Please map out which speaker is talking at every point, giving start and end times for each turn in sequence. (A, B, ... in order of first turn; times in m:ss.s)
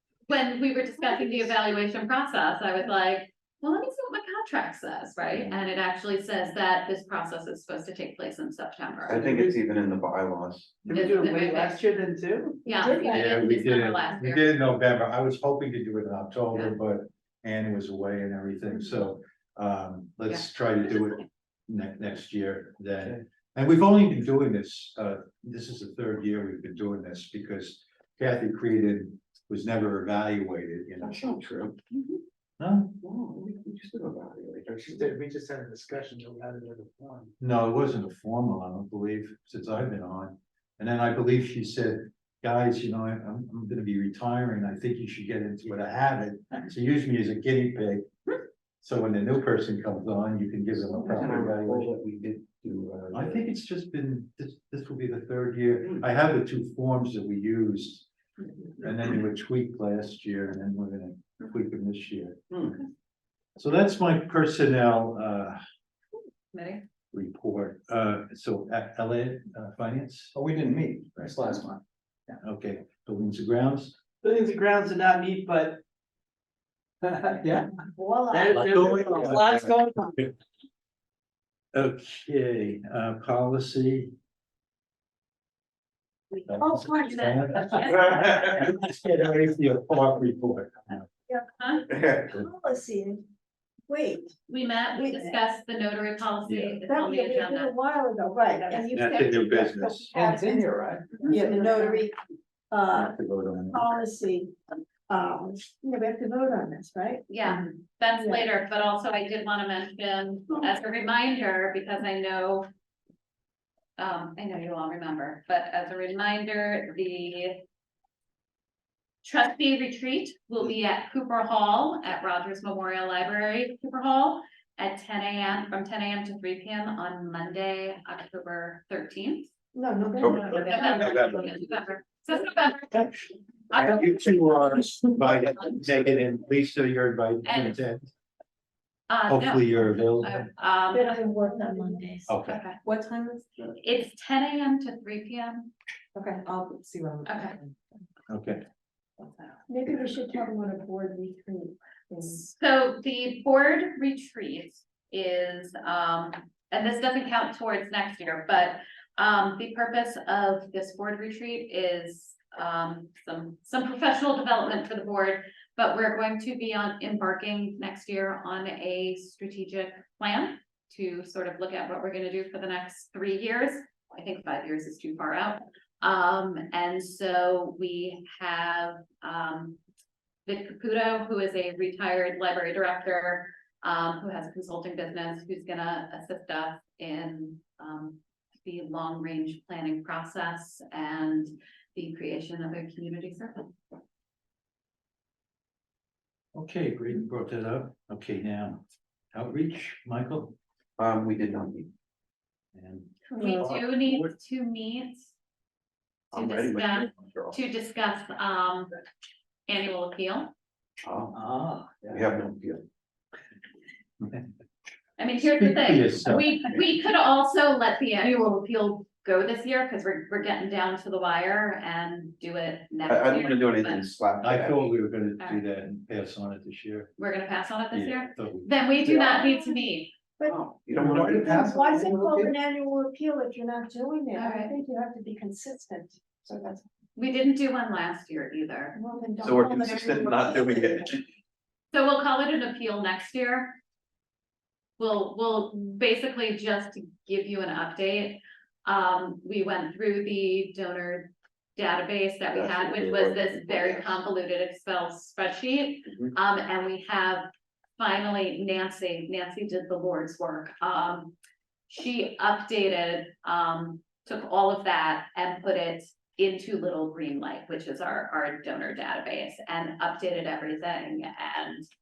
0:00.3-0:09.2 A
0:09.1-0:10.8 B
0:09.1-0:09.7 C
0:10.8-0:12.6 C
0:10.9-0:11.8 A
0:12.6-0:14.5 A
0:12.7-0:13.4 D
0:13.1-0:31.3 E
0:31.0-0:32.0 B
0:32.6-0:33.0 E
0:33.0-0:35.0 B
0:34.8-0:37.3 C
0:37.4-0:48.1 E
0:48.8-0:51.9 E
0:50.9-0:53.5 B
0:53.1-0:58.0 E
0:58.8-1:02.4 E
1:02.5-1:02.8 B
1:03.6-1:05.6 E
1:06.5-1:06.8 A
1:07.1-1:11.8 E
1:12.3-1:14.0 E
1:14.2-1:15.8 C
1:17.0-1:20.3 C
1:17.9-1:18.6 D
1:18.5-1:19.7 E
1:21.7-1:24.1 E
1:26.5-1:31.1 E
1:26.6-1:27.2 D
1:27.0-1:28.6 A
1:31.5-1:31.9 A
1:31.9-1:32.2 B
1:32.2-1:33.2 D
1:33.9-1:34.3 D
1:34.5-1:37.7 A
1:34.9-1:35.3 D
1:36.5-1:36.8 E
1:36.9-1:40.7 D
1:38.9-1:40.5 E
1:40.2-1:41.3 C
1:41.3-1:42.2 D
1:41.4-1:42.0 F
1:42.7-1:43.1 D
1:42.9-1:43.8 E
1:43.7-1:44.5 D
1:45.1-1:47.3 D
1:47.3-1:52.7 A
1:48.2-1:48.5 D
1:54.0-1:57.6 A
1:59.2-2:09.5 A
2:09.8-2:11.3 D
2:10.2-2:13.1 A
2:10.2-2:11.4 B
2:10.8-2:11.1 E
2:13.7-2:14.6 A
2:13.7-2:18.1 E
2:15.4-2:15.7 A
2:17.4-2:17.8 A
2:19.1-2:21.2 A
2:19.3-2:20.5 E
2:20.9-2:22.2 D
2:21.0-2:22.3 F
2:22.3-2:22.6 E
2:22.4-2:22.8 A
2:22.8-2:23.7 F
2:23.8-2:25.7 A
2:26.2-2:27.7 F
2:27.2-2:27.6 A
2:28.3-2:28.6 E
2:29.2-2:29.6 F
2:29.7-2:32.4 D
2:32.2-2:59.8 A
3:00.5-3:13.8 A
3:16.5-3:18.8 E
3:19.3-3:20.6 E
3:21.0-3:21.9 B
3:22.7-3:24.3 E
3:23.3-3:23.6 D
3:23.4-3:25.3 A
3:26.3-3:27.6 B
3:26.3-3:28.9 A
3:29.7-3:30.5 A
3:31.0-3:31.4 B
3:31.3-3:32.3 E
3:32.1-3:32.8 B
3:35.2-3:44.1 A
3:35.5-3:36.5 E
3:43.1-3:44.9 B
3:44.4-3:47.1 E
3:45.4-3:45.6 A
3:47.2-3:50.1 A
3:47.9-3:48.7 E
3:49.1-3:49.9 D
3:50.4-3:51.7 B
3:51.0-3:52.4 E
3:51.1-3:52.5 C
3:51.3-3:56.8 D
3:54.3-3:54.7 A
3:57.2-3:59.0 A
3:58.9-4:01.1 D
3:59.4-4:01.2 B
4:01.9-4:03.8 A
4:05.0-4:21.3 A
4:12.5-4:14.2 B
4:16.1-4:16.3 B
4:21.9-4:31.8 A